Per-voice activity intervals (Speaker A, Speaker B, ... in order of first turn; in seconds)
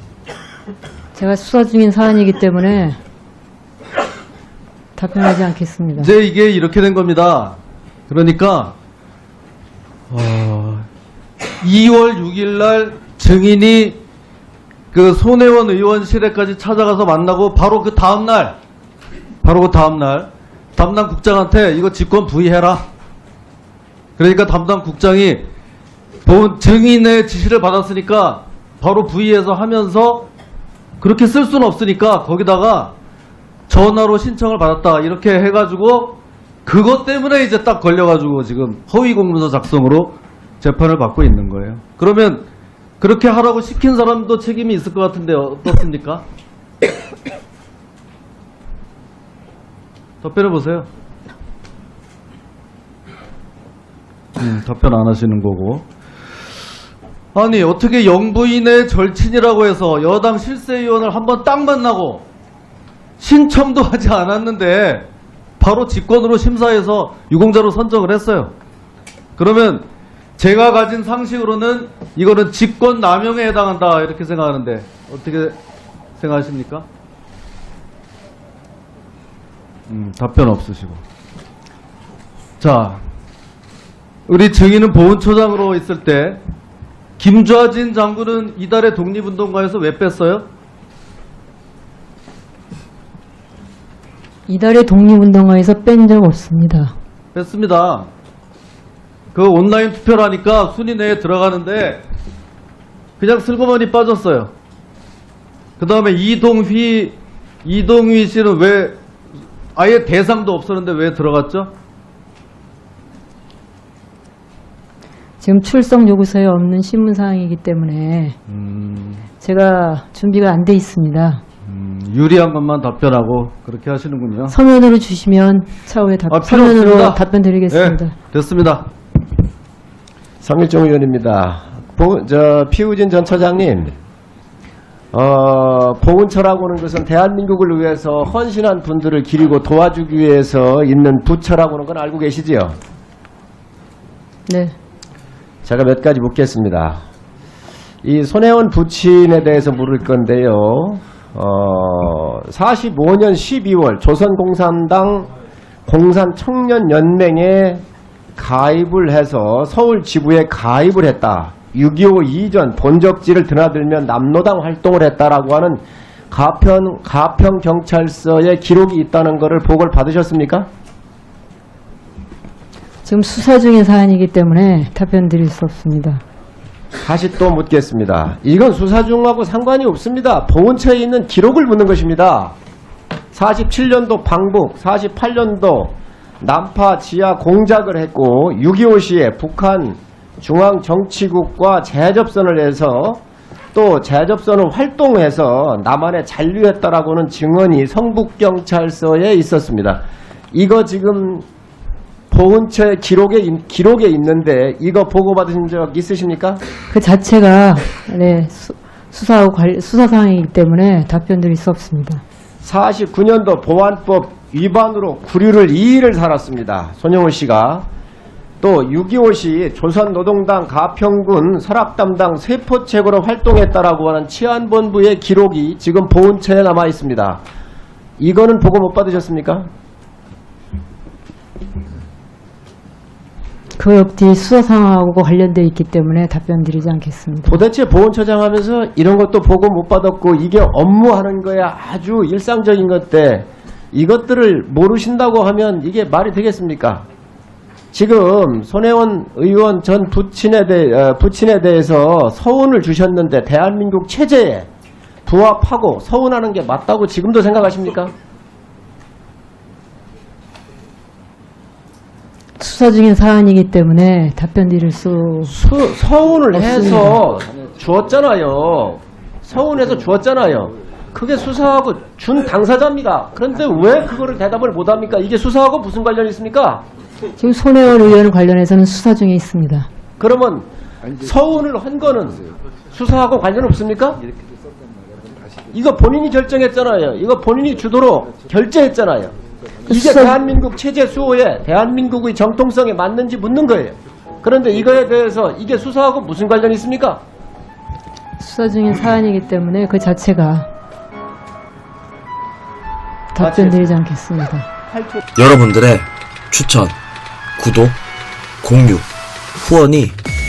Speaker A: 1.1-3.0, 5.0-6.1, 94.5-96.9, 115.4-118.3, 119.4-121.4, 124.5-128.2, 144.5-144.7, 173.0-176.2, 206.9-212.2, 233.7-237.6, 262.6-265.5, 266.5-267.2, 277.4-279.9, 289.9-290.4, 298.4-300.7, 303.3-304.7
Speaker B: 6.0-7.5, 8.1-8.7, 10.1-10.9, 11.6-14.0, 14.9-18.6, 19.4-22.9, 24.2-25.4, 26.2-30.3, 31.0-32.9, 33.7-42.4, 43.0-46.2, 50.2-50.9, 54.4-55.8, 57.3-62.2, 63.2-65.0, 65.6-68.5, 69.4-69.8, 70.4-75.6, 76.2-76.8, 79.9-81.0, 82.6-83.0, 84.3-86.4, 87.2-90.5, 97.3-98.1, 99.3-102.0, 103.2-104.5, 105.8-109.0, 109.7-111.7, 118.5-119.3, 121.7-124.5, 126.3-128.9
Speaker C: 130.4-133.9, 135.1-142.8, 145.6-147.0, 148.0-155.3, 155.8-157.8, 158.3-170.7, 177.0-182.5, 183.3-193.2, 193.7-201.4, 202.3-206.6, 212.6-217.8, 218.6-227.4, 228.2-229.7, 237.4-247.0, 247.9-254.7, 255.2-258.1, 265.4-276.8, 280.2-284.2, 285.7-289.3, 289.9-297.2, 303.4-303.8, 304.9-305.2
Speaker D: 305.4-306.9, 307.6-308.0, 308.6-310.2